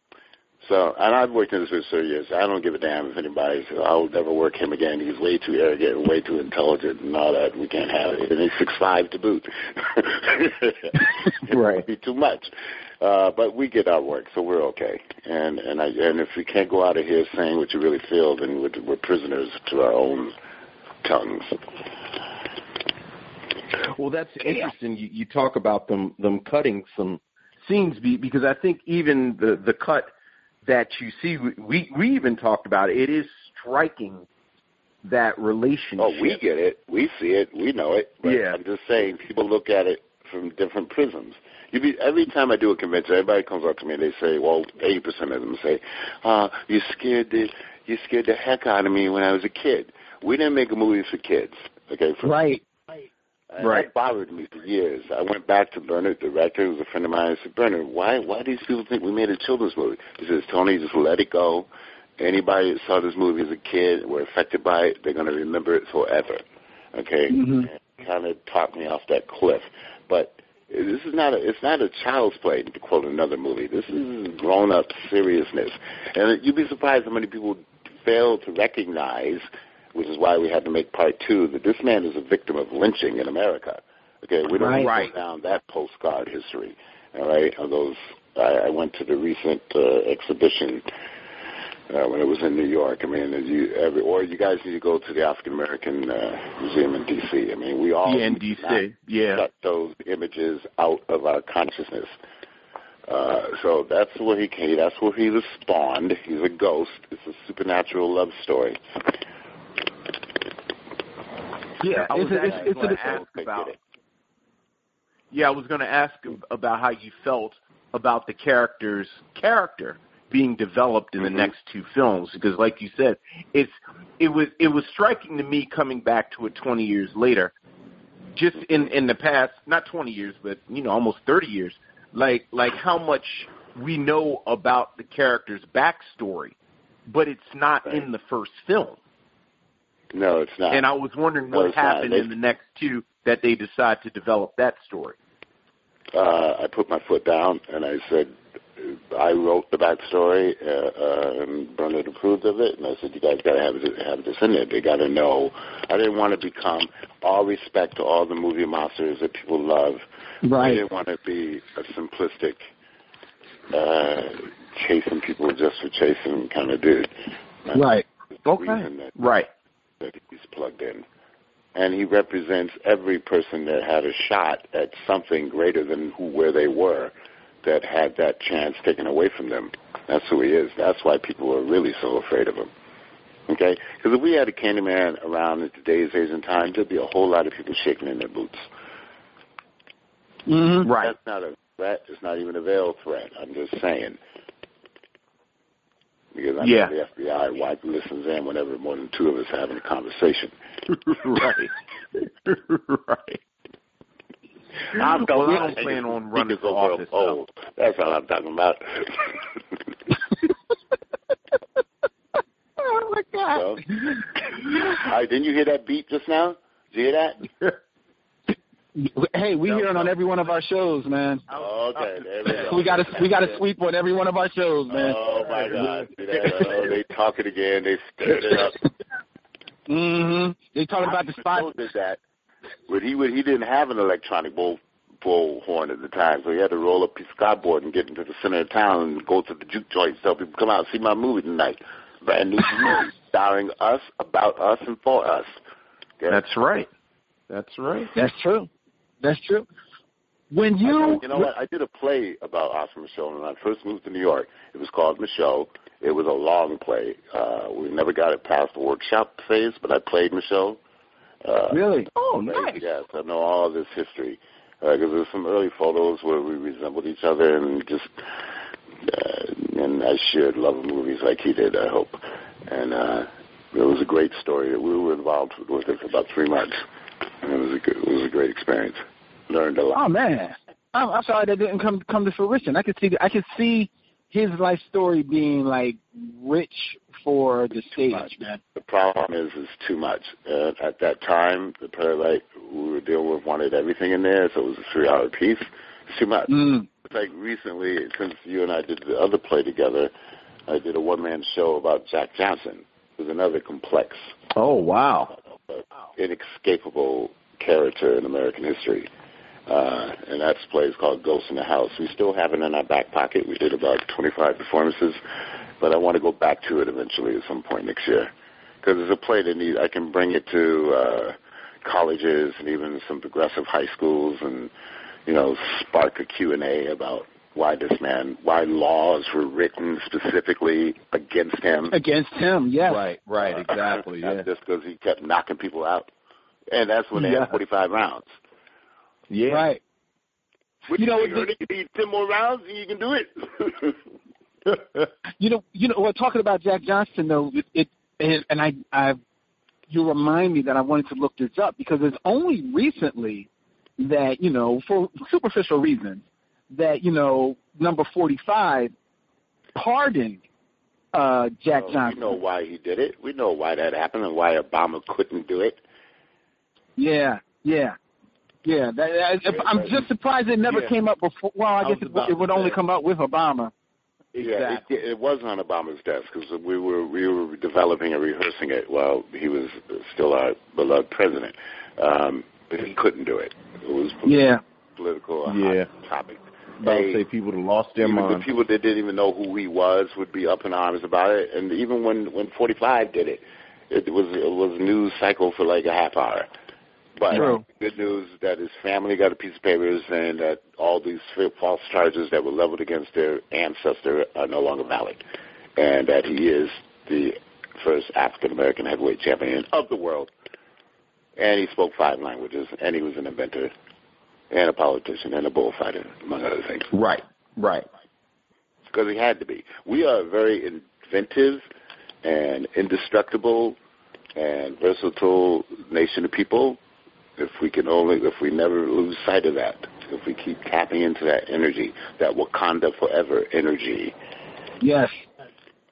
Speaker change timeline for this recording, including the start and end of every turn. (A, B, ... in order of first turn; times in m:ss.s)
0:00.6-0:20.4 A
0:11.5-0:11.9 B
0:21.0-0:21.6 A
0:24.0-0:30.1 B
0:30.6-0:34.3 B
0:35.0-0:36.4 B
0:36.0-0:52.4 A
0:38.2-0:38.6 B
0:52.2-0:52.6 C
0:53.5-1:06.4 A
0:53.6-0:53.9 B
1:06.9-1:19.4 A
1:07.3-1:07.7 C
1:19.9-1:30.8 A
1:24.6-1:24.9 C
1:24.7-1:25.1 B
1:31.9-1:42.1 A
1:38.0-1:39.4 B
1:43.1-1:48.8 A
1:51.8-1:53.0 C
1:51.9-1:53.8 B
1:52.1-1:53.8 A
1:55.3-2:07.5 B
2:01.2-2:01.5 A
2:08.4-2:16.6 B
2:17.1-2:19.0 B
2:20.1-2:20.9 A
2:20.7-2:25.2 B
2:21.5-2:22.3 A
2:26.1-2:40.0 A
2:40.4-2:40.8 C
2:40.6-2:42.7 A
2:43.7-2:47.1 A
2:47.7-2:48.1 C
2:48.5-2:49.2 A
2:48.5-2:49.5 B
2:50.0-2:51.0 A
2:51.8-3:02.7 A
3:03.5-3:08.7 A
3:10.5-3:10.9 C
3:10.8-3:11.2 B
3:11.0-3:14.2 A
3:16.3-3:20.5 A
3:16.6-3:16.9 B
3:20.9-3:23.4 B
3:24.9-3:29.5 A
3:25.0-3:27.4 B
3:32.8-3:34.3 C
3:33.5-3:33.8 A
3:34.9-3:37.5 A
3:39.0-3:41.4 C
3:39.7-3:40.1 B
3:41.5-3:42.0 B
3:41.6-3:43.6 A
3:42.5-3:45.2 C
3:44.9-3:48.8 A
3:45.5-3:46.9 B
3:49.9-3:51.7 C
3:51.0-3:52.2 A
3:52.9-4:05.5 A
4:06.3-4:06.9 B
4:07.5-4:08.1 B
4:08.2-4:08.7 C
4:09.2-4:09.7 C
4:10.5-4:11.4 C
4:10.8-4:20.8 A
4:21.4-4:21.8 A
4:21.7-4:22.1 C
4:22.2-4:22.8 B
4:22.4-4:28.4 A
4:29.0-4:36.8 A
4:37.4-4:40.0 A
4:40.0-4:48.6 C
4:48.0-5:00.1 A
4:56.5-4:56.9 C
5:00.7-5:04.3 A
5:04.6-5:05.4 B
5:05.4-5:09.1 A
5:09.7-5:15.2 A
5:15.8-5:18.3 A
5:18.8-5:24.7 A
5:25.3-5:32.0 A
5:31.9-5:33.1 C
5:32.8-5:34.5 B
5:33.4-5:36.1 A
5:36.7-5:38.3 A
5:37.2-5:37.6 B
5:39.3-5:39.7 B
5:39.5-5:39.8 C
5:40.9-5:44.0 A
5:41.0-5:41.5 C
5:44.7-5:45.1 B
5:45.4-5:49.2 C
5:49.9-5:58.9 C
5:59.8-6:00.4 C
6:01.1-6:02.3 C
6:01.7-6:05.8 A
6:07.0-6:08.0 C
6:08.6-6:13.7 C
6:09.5-6:10.0 A
6:10.7-6:10.9 B
6:11.8-6:12.8 B
6:14.3-6:14.8 B
6:14.4-6:27.2 A
6:24.3-6:24.6 C
6:25.5-6:25.9 B
6:26.8-6:28.4 B
6:28.0-6:36.5 A
6:37.2-6:45.2 A
6:37.3-6:37.6 C
6:45.8-6:50.3 A
6:51.4-6:53.7 A
6:54.5-6:56.9 A
6:56.9-6:57.9 B
6:58.9-7:01.6 A
7:02.2-7:03.8 A
7:04.4-7:06.8 A
7:07.4-7:14.2 A
7:14.8-7:15.2 C